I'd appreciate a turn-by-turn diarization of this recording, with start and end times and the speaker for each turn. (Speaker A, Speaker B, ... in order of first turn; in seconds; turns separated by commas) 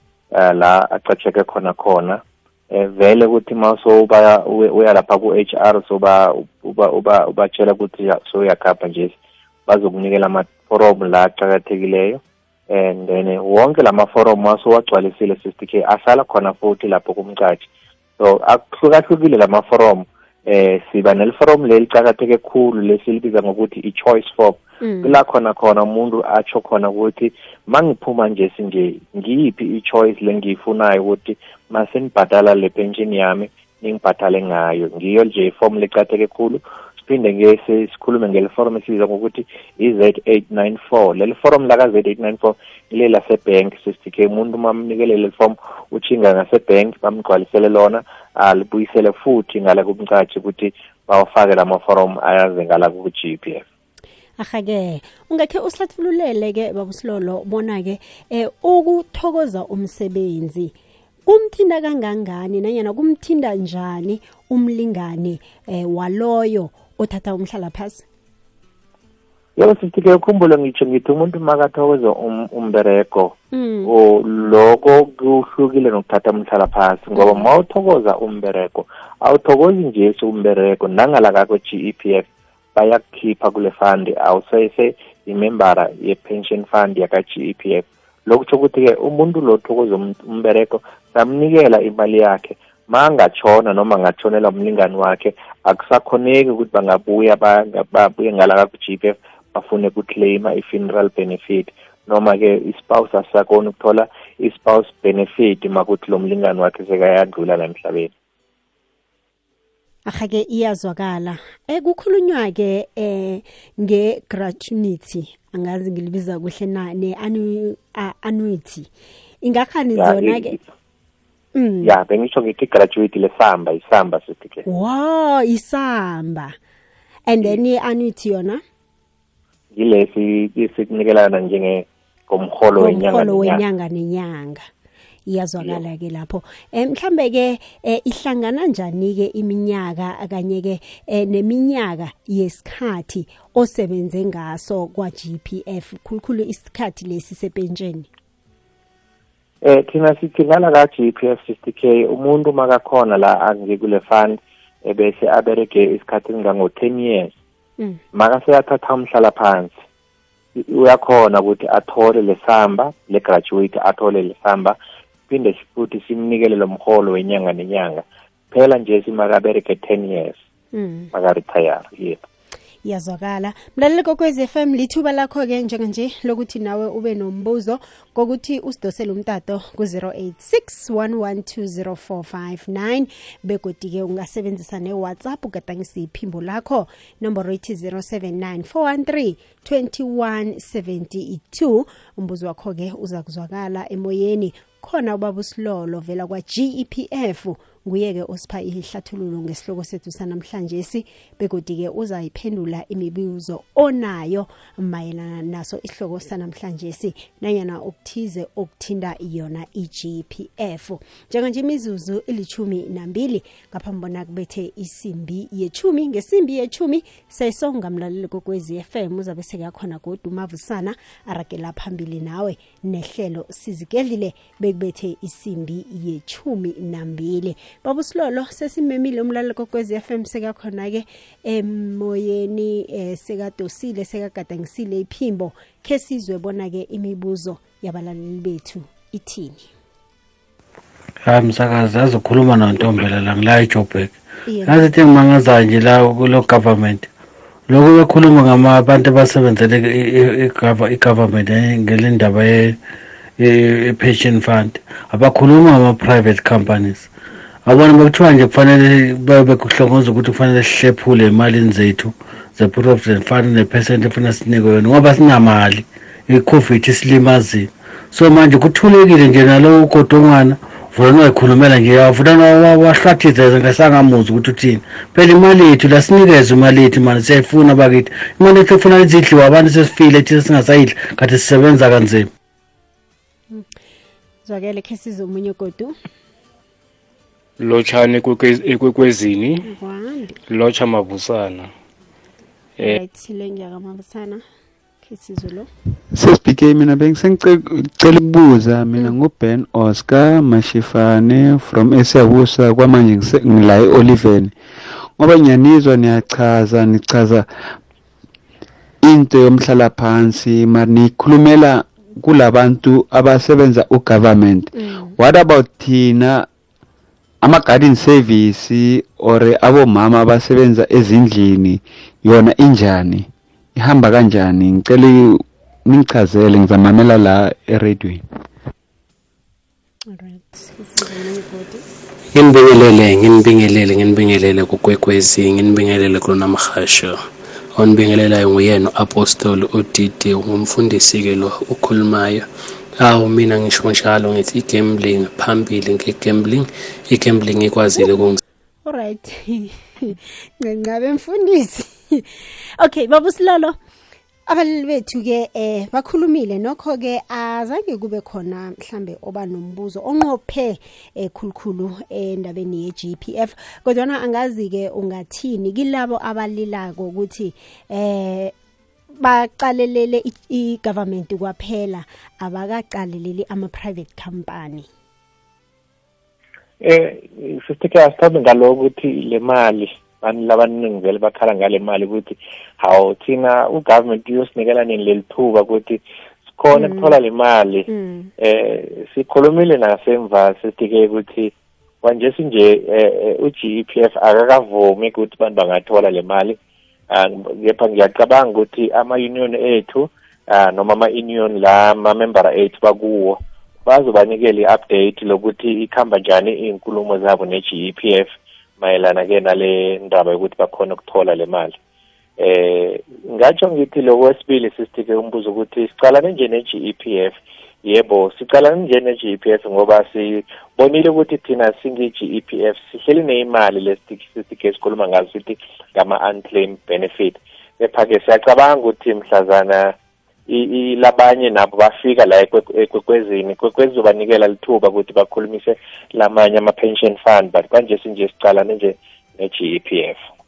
Speaker A: 0.3-9.2, Speaker A: 9.7-17.7, Speaker A: 18.2-53.6, Speaker B: 24.8-25.2, Speaker B: 54.4-60.7, Speaker B: 61.2-68.0, Speaker A: 69.6-108.1, Speaker B: 73.5-73.9, Speaker B: 77.1-77.5, Speaker B: 110.0-118.9, Speaker B: 119.4-120.5, Speaker A: 120.0-120.6, Speaker B: 121.5-122.0, Speaker A: 121.8-124.6, Speaker B: 124.7-126.5, Speaker B: 127.3-128.6, Speaker A: 129.8-133.6, Speaker B: 132.8-134.7, Speaker B: 135.3-148.1, Speaker A: 149.6-157.3, Speaker A: 158.1-159.8, Speaker A: 160.5-164.8, Speaker A: 165.3-170.4, Speaker B: 170.7-171.1, Speaker A: 171.1-172.2, Speaker B: 172.8-239.7, Speaker C: 241.2-244.1, Speaker B: 244.4-244.8, Speaker C: 244.7-247.1, Speaker C: 247.7-252.8, Speaker C: 253.4-257.1, Speaker C: 257.6-282.3, Speaker B: 284.4-285.9, Speaker D: 287.6-289.7, Speaker B: 289.6-290.4, Speaker D: 290.5-291.7, Speaker B: 292.8-294.4, Speaker B: 295.0-295.7, Speaker E: 296.1-304.5, Speaker E: 305.2-307.4, Speaker E: 309.0-316.5, Speaker B: 314.7-315.2, Speaker E: 317.4-328.2, Speaker B: 330.1-331.9, Speaker F: 332.3-337.2, Speaker F: 337.8-342.4, Speaker F: 343.0-348.4, Speaker B: 348.9-353.8, Speaker B: 354.5-368.5, Speaker B: 369.1-374.9, Speaker A: 376.8-386.0, Speaker A: 386.6-387.9, Speaker B: 386.7-387.1, Speaker B: 387.9-388.3, Speaker A: 388.4-396.6, Speaker A: 397.1-411.8, Speaker A: 412.4-429.9, Speaker A: 430.5-440.2